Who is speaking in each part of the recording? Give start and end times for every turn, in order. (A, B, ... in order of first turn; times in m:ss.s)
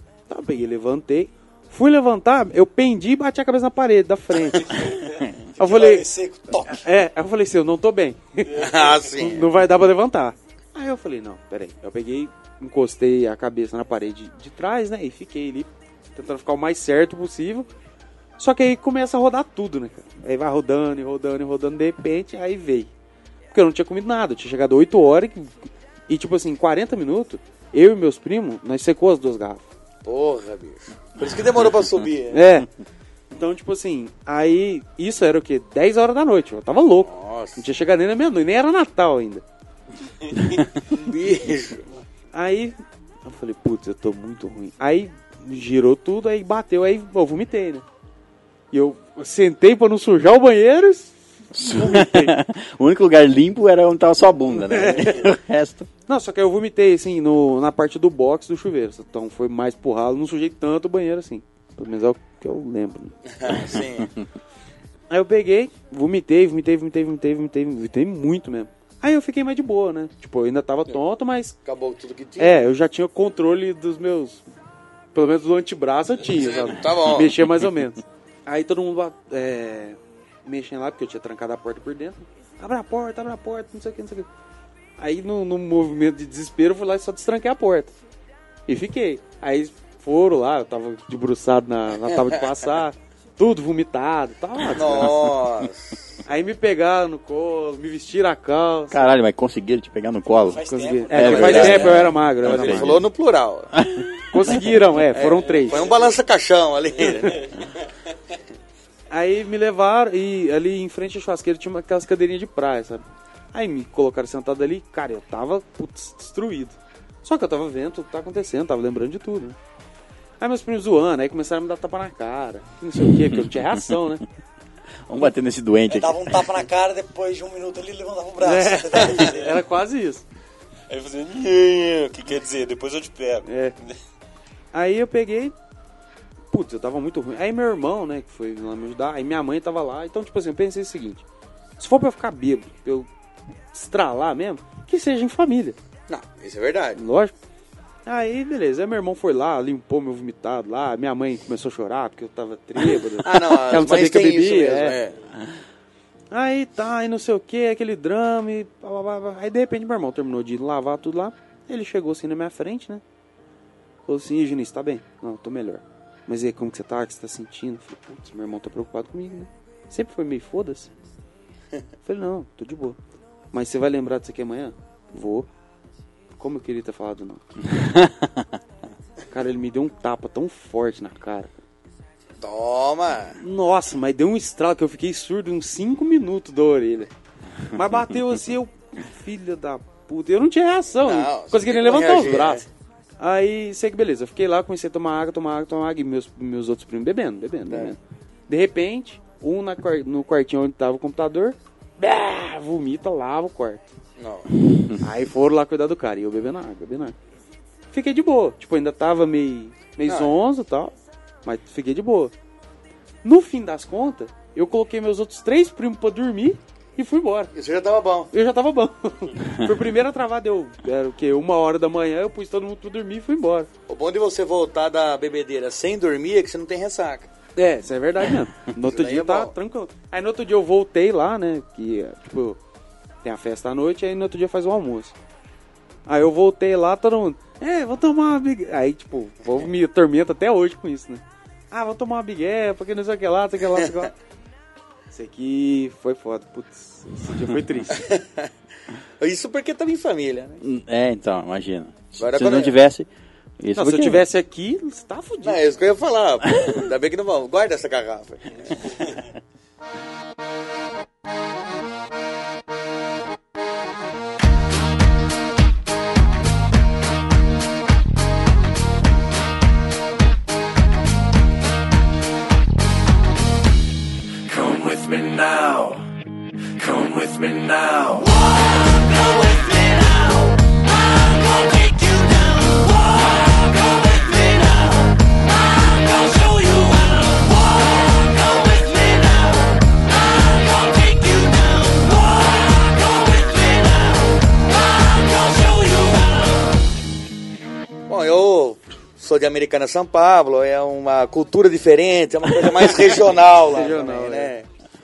0:00.3-0:05.0 A
0:05.6-0:06.8 B
0:05.6-0:17.7 A
0:08.5-0:09.5 C
0:18.4-0:22.9 A
0:23.5-0:25.5 A
0:26.1-0:29.6 A
0:30.0-0:32.4 C
0:32.3-0:32.7 A
0:33.3-0:39.4 A
0:37.0-0:37.6 C
0:40.9-0:41.8 C
0:42.3-0:47.8 A
0:48.7-0:52.3 A
0:51.5-0:55.9 D
0:54.6-0:55.2 A
0:56.1-1:03.1 A
1:03.3-1:04.1 C
1:05.1-1:11.6 A
1:11.6-1:12.6 C
1:12.4-1:14.4 A
1:15.1-1:24.3 A
1:16.4-1:17.3 C
1:25.0-1:27.9 A
1:28.7-1:35.3 A
1:34.7-1:36.1 C
1:36.2-1:39.1 A
1:38.9-1:43.0 D
1:40.4-1:41.8 B
1:40.7-1:43.0 A
1:41.2-1:43.7 C
1:43.7-1:44.6 D
1:44.3-1:45.9 A
1:45.1-1:47.6 C
1:49.1-1:59.6 A
2:00.4-2:04.2 A
2:03.3-2:03.8 D
2:05.1-2:06.4 D
2:05.9-2:09.5 B
2:08.4-2:10.2 A
2:10.9-2:13.9 E
2:13.4-2:13.7 A
2:14.7-2:15.5 A
2:16.5-2:21.2 A
2:21.8-2:23.1 A
2:23.7-2:25.8 A
2:26.1-2:27.0 C
2:27.0-2:27.3 A
2:28.0-2:35.0 A
2:33.2-2:35.1 C
2:36.3-2:43.0 A
2:44.0-2:50.9 A
2:52.0-2:53.0 A
2:53.5-2:55.5 A
2:56.4-2:57.4 A
2:57.7-2:58.5 D
2:59.3-3:01.5 A
3:02.4-3:03.4 C
3:03.4-3:07.1 A
3:07.7-3:12.6 A
3:11.0-3:12.6 C
3:13.2-3:23.8 A
3:17.7-3:17.9 C
3:24.2-3:24.5 C
3:25.0-3:27.2 A
3:27.9-3:30.9 A
3:30.0-3:30.3 C
3:31.4-3:32.3 A
3:33.2-3:37.5 A
3:37.5-3:38.3 C
3:38.3-3:43.7 A
3:43.9-3:47.3 C
3:47.6-3:52.6 A
3:48.9-3:49.5 C
3:53.2-3:55.1 A
3:56.1-4:04.1 A
4:05.1-4:08.0 A
4:07.9-4:08.5 C
4:09.2-4:10.6 C
4:10.6-4:13.1 D
4:12.2-4:12.7 C
4:13.6-4:14.2 D
4:13.7-4:15.6 A
4:15.4-4:19.2 C
4:34.8-4:35.6 F
4:37.2-4:38.3 F
4:39.0-4:40.6 F
4:41.7-4:42.9 F
4:44.4-4:44.9 F
4:46.0-4:47.0 F
4:48.8-4:49.1 F
4:55.2-4:55.7 F
4:58.1-5:04.6 C
5:03.6-5:04.5 A